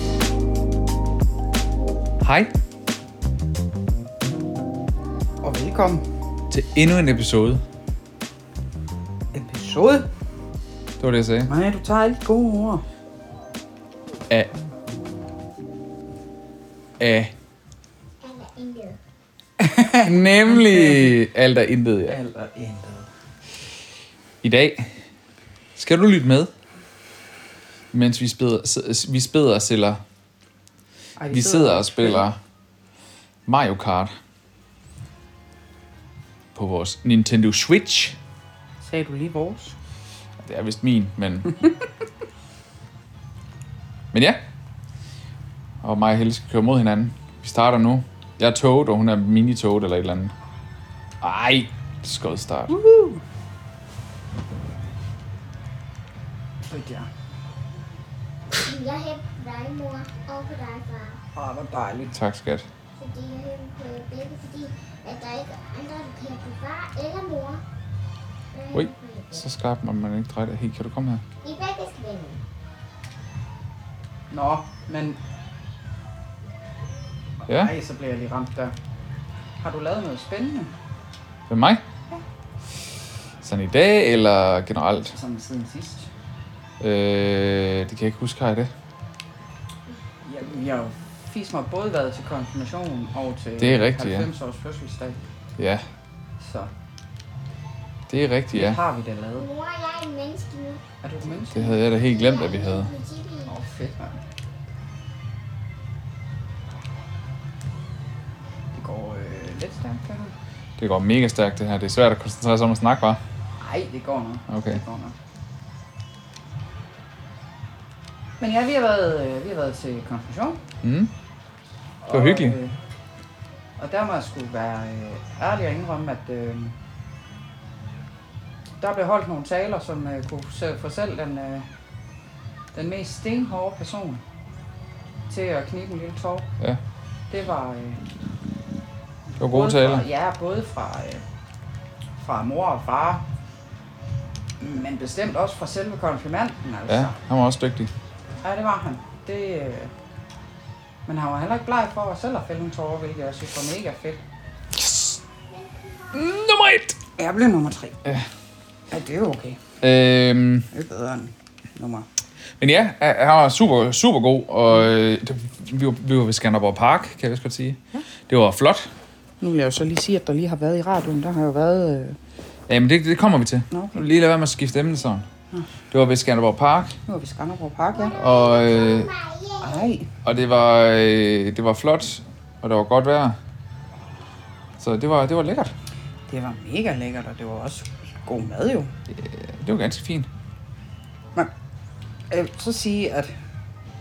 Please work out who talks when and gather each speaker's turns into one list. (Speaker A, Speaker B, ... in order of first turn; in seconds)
Speaker A: 2.2-2.5, 6.5-7.6, 11.0-11.5, 17.0-17.3, 20.0-22.2, 24.4-24.9, 25.8-26.5, 27.9-30.0, 31.3-32.4, 33.5-34.1, 36.5-38.2, 40.4-41.5, 44.1-44.4, 45.8-50.3, 51.2-52.7, 62.1-62.7, 68.7-71.2, 77.5-77.7, 81.5-81.8, 83.4-85.1, 86.8-88.7, 93.6-94.3, 95.6-95.8, 98.1-98.8, 101.5-102.9, 110.8-113.2, 114.5-114.8, 120.8-121.1, 122.1-122.6, 139.4-140.0, 146.9-147.9, 154.7-155.2, 156.1-157.0, 159.8-160.7, 162.6-168.9, 172.7-175.2, 175.9-177.0, 178.1-179.1, 180.2-183.4, 184.8-185.7, 189.1-190.3
Speaker B: 5.4-6.0, 9.3-10.1, 11.5-12.8, 19.6-21.2, 22.1-23.1, 31.2-32.3, 38.8-39.8, 52.7-53.2, 56.6-57.1, 61.4-62.1, 74.3-75.2, 77.4-78.7, 79.6-80.7, 85.1-86.1, 90.2-95.2, 96.4-96.7, 98.5-99.5, 101.0-101.7, 103.5-104.2, 108.7-110.3, 113.6-115.2, 118.4-120.6, 122.0-122.8, 123.8-126.8, 128.8-131.7, 132.7-134.2, 135.3-136.5, 137.3-138.0, 139.4-141.2, 142.2-143.2, 144.6-147.2, 148.4-149.9, 151.1-154.2, 157.2-158.0, 158.9-159.6, 160.7-162.1, 169.4-172.2, 173.7-174.0, 177.1-178.2, 179.6-180.1, 186.3-188.9, 192.3-193.3
Speaker C: 18.2-19.0, 58.5-61.2, 63.0-67.6, 68.5-69.5, 71.4-72.4, 99.4-100.8, 101.8-103.5, 155.5-156.1, 177.9-179.8